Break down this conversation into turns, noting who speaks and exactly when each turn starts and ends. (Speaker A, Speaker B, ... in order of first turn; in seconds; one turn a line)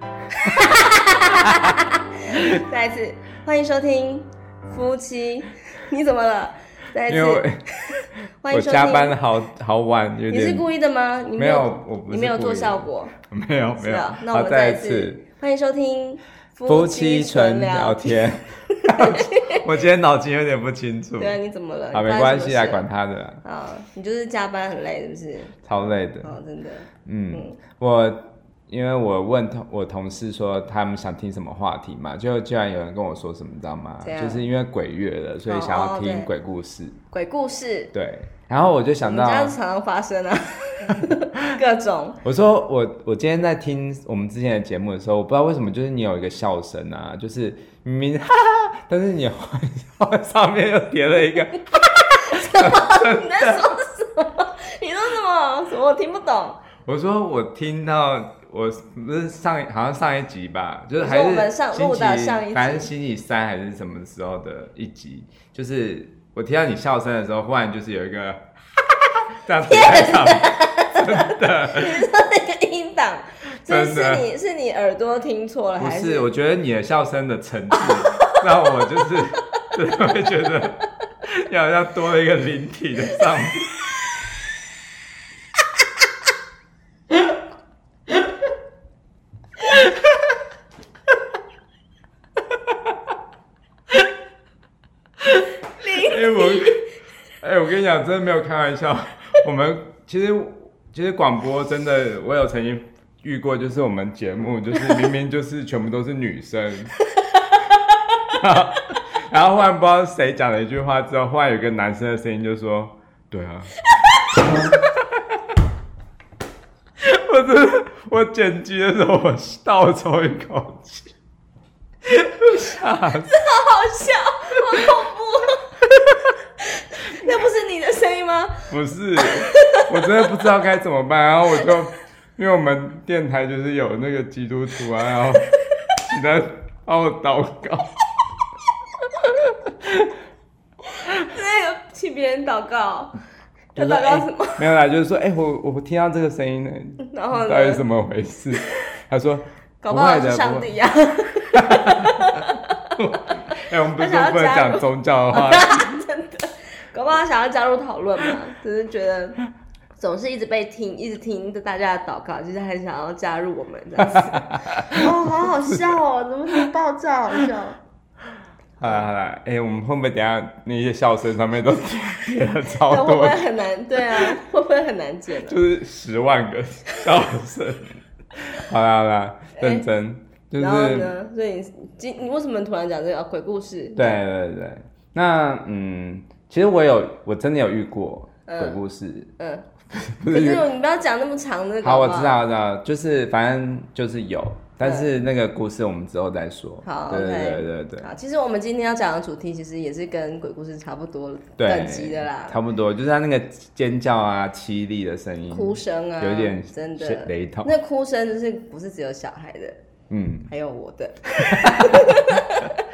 Speaker A: 0.4-9.2
Speaker B: 7.1-7.6
Speaker B: 8.5-10.7
Speaker A: 10.3-13.1
Speaker B: 11.4-15.2
Speaker A: 13.8-19.6
Speaker B: 16.7-21.4
Speaker A: 21.2-22.8
Speaker B: 21.9-23.4
Speaker A: 23.4-25.6
Speaker B: 25.6-26.3
Speaker A: 26.2-27.6
Speaker B: 27.1-37.0
Speaker A: 34.0-34.5
Speaker A: 35.5-36.3
Speaker A: 37.1-37.9
Speaker B: 37.9-39.6
Speaker A: 39.0-42.2
Speaker B: 42.2-53.8
Speaker A: 52.3-56.6
Speaker B: 56.9-72.0
Speaker A: 61.0-62.9
Speaker A: 69.6-76.3
Speaker B: 73.6-74.3
Speaker B: 75.8-83.7
Speaker A: 95.8-96.7
Speaker B: 95.8-96.9
Speaker B: 97.4-106.9
Speaker B: 108.2-113.7
Speaker B: 117.0-121.1
Speaker B: 122.1-123.3
Speaker A: 123.1-125.8
Speaker A: 126.6-130.1
Speaker B: 128.7-137.9
Speaker B: 139.5-140.1
Speaker A: 141.2-143.2
Speaker B: 143.8-150.7
Speaker A: 143.8-144.7
Speaker A: 147.0-147.8
Speaker A: 149.8-152.9
Speaker B: 151.6-152.1
Speaker B: 152.9-155.8
Speaker A: 153.5-159.4
Speaker A: 160.0-167.8
Speaker B: 164.6-165.0
Speaker B: 168.8-173.4
Speaker A: 172.8-175.6
Speaker B: 174.0-174.4
Speaker B: 175.4-181.1
Speaker A: 179.6-179.9
Speaker A: 180.6-184.2
Speaker B: 184.0-189.3
Speaker A: 188.5-188.8
Speaker A: 189.4-189.7
Speaker B: 189.9-190.6
Speaker A: 190.3-192.4
Speaker B: 191.8-198.1
Speaker A: 194.8-195.1
Speaker A: 196.8-202.6
Speaker B: 201.6-207.7
Speaker A: 205.5-209.8
Speaker B: 210.1-210.5
Speaker A: 210.5-212.7
Speaker B: 211.5-212.2